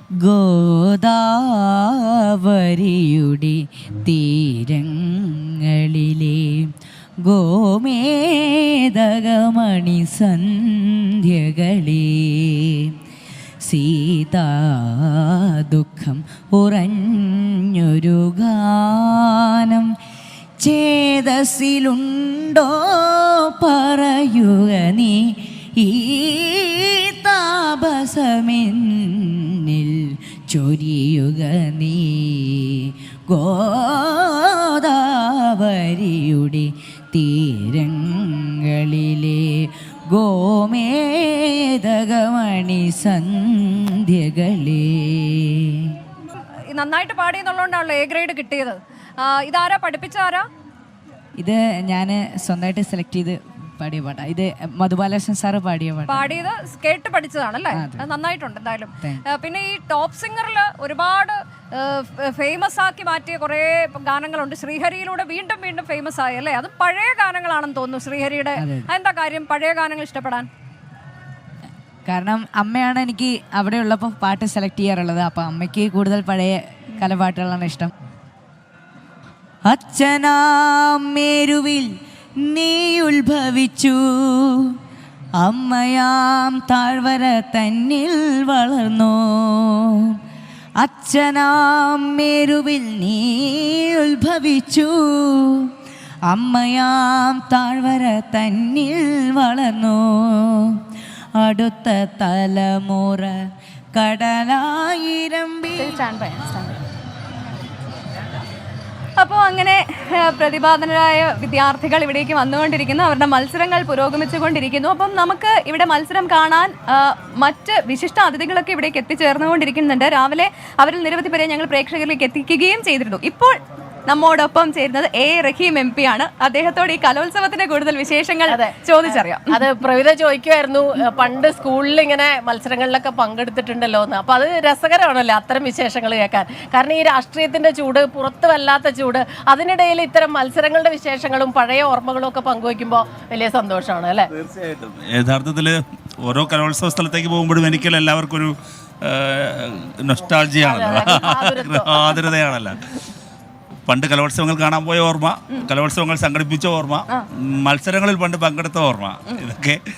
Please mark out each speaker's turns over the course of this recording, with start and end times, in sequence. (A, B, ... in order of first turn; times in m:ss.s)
0:00.2-0:06.7 A
0:07.2-0:12.8 A
0:13.6-0:19.9 A
0:20.6-0:45.8 A
0:46.7-0:50.5 B
0:51.4-0:56.3 A
0:56.1-1:10.5 B
0:57.7-0:58.1 A
1:08.6-1:08.9 A
1:12.1-1:17.9 A
1:19.7-1:21.9 A
1:22.4-1:24.7 A
1:25.4-1:30.1 A
1:30.8-1:35.6 A
1:36.3-1:40.6 A
1:41.4-1:43.3 A
1:44.0-1:46.0 A
1:45.8-1:46.8 C
1:49.2-2:09.6 C
2:08.5-2:24.3 D
2:24.3-2:32.8 E
2:30.6-2:32.2 D
2:33.9-2:37.0 E
2:37.6-2:39.8 E